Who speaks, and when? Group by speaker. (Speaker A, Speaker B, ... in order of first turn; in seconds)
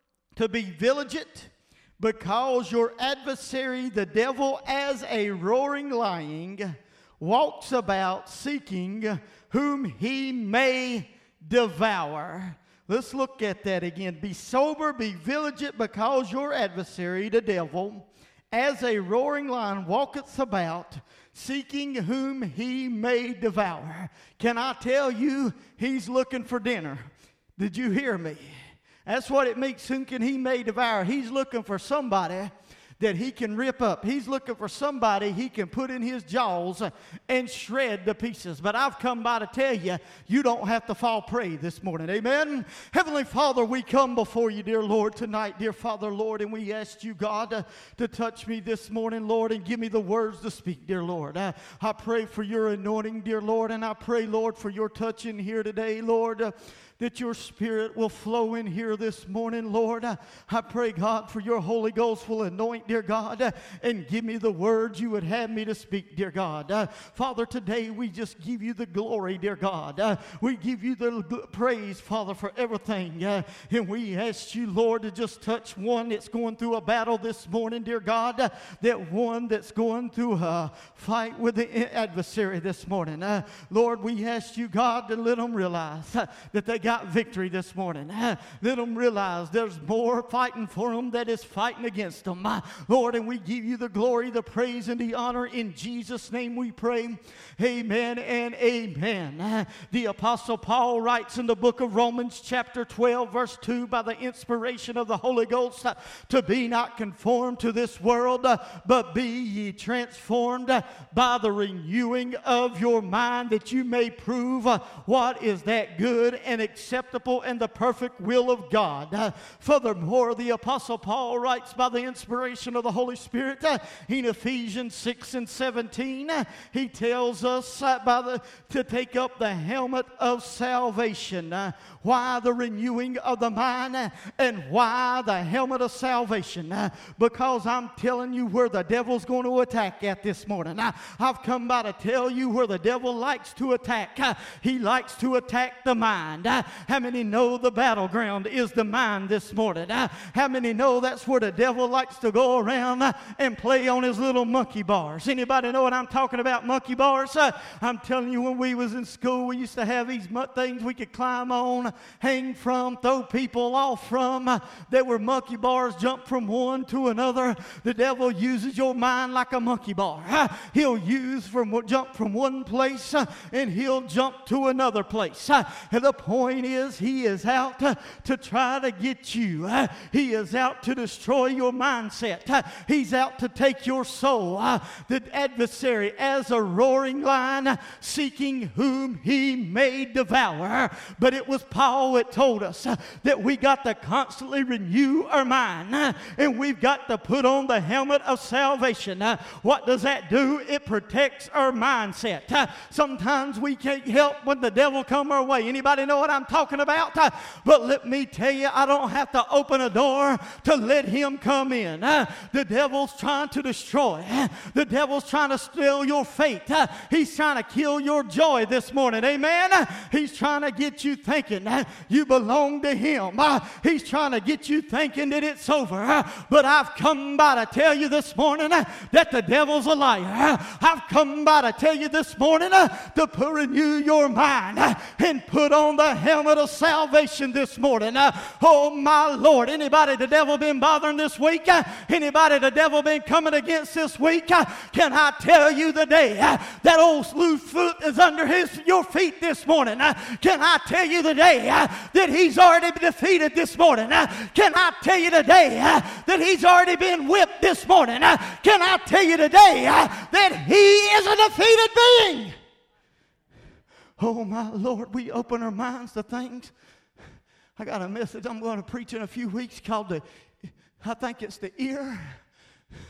Speaker A: 0.3-262.6, 264.2-266.7, 267.8-272.4